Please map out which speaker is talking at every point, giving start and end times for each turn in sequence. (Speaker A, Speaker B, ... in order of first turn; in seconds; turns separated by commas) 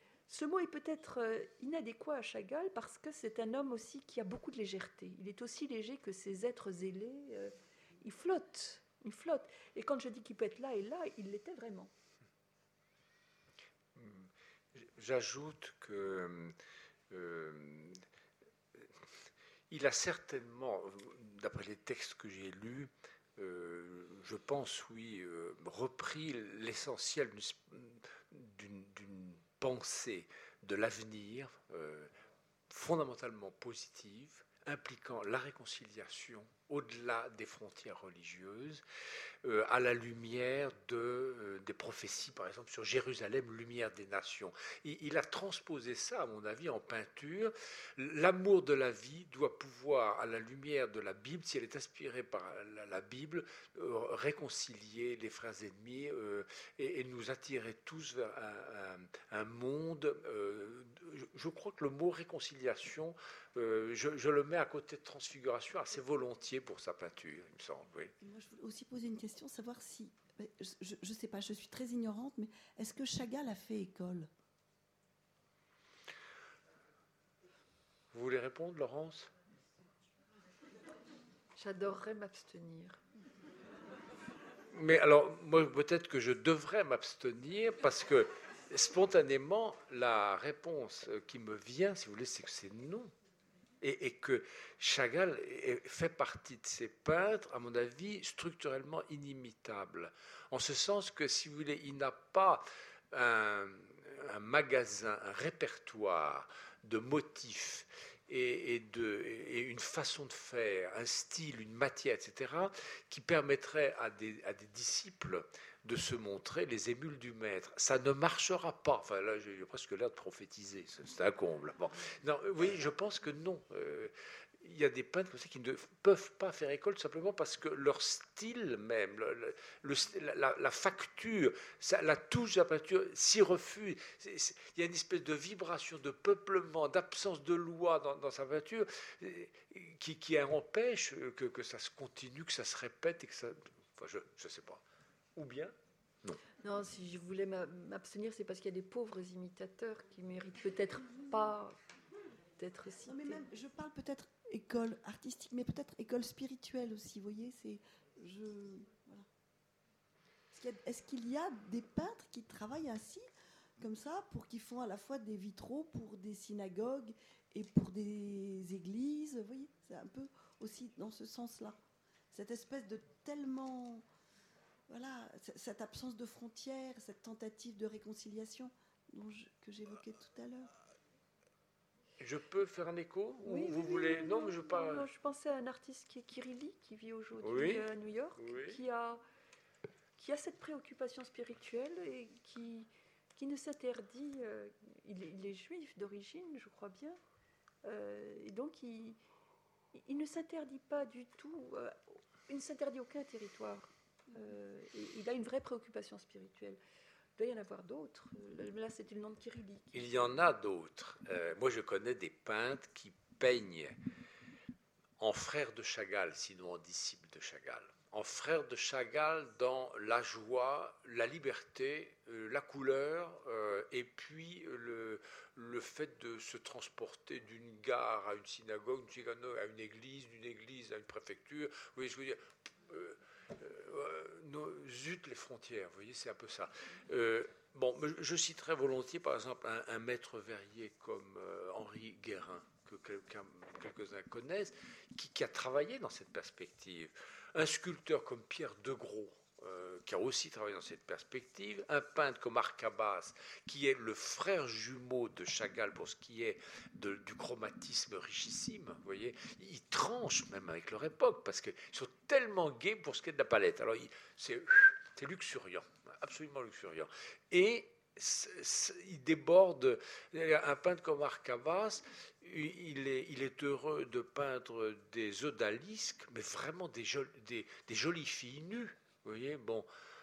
Speaker A: 0.3-11.9, Speaker B: 13.9-16.6, Speaker B: 17.1-18.0, Speaker B: 18.8-19.0, Speaker B: 19.7-32.1, Speaker B: 32.7-38.8, Speaker B: 39.4-68.1, Speaker C: 68.2-74.3, Speaker B: 78.1-79.3, Speaker A: 81.6-83.0, Speaker B: 84.7-93.1, Speaker B: 93.8-144.8, Speaker B: 145.3-146.4, Speaker A: 146.6-151.7, Speaker A: 152.6-153.4, Speaker C: 153.1-159.3, Speaker C: 160.5-163.3, Speaker C: 163.8-171.8, Speaker C: 172.3-174.0, Speaker C: 174.9-180.7, Speaker B: 182.2-185.1, Speaker A: 183.4-189.2, Speaker B: 187.4-188.8, Speaker A: 190.2-197.2, Speaker A: 197.8-199.2, Speaker A: 199.9-206.8, Speaker A: 207.4-210.0, Speaker B: 209.9-213.9, Speaker B: 215.2-279.9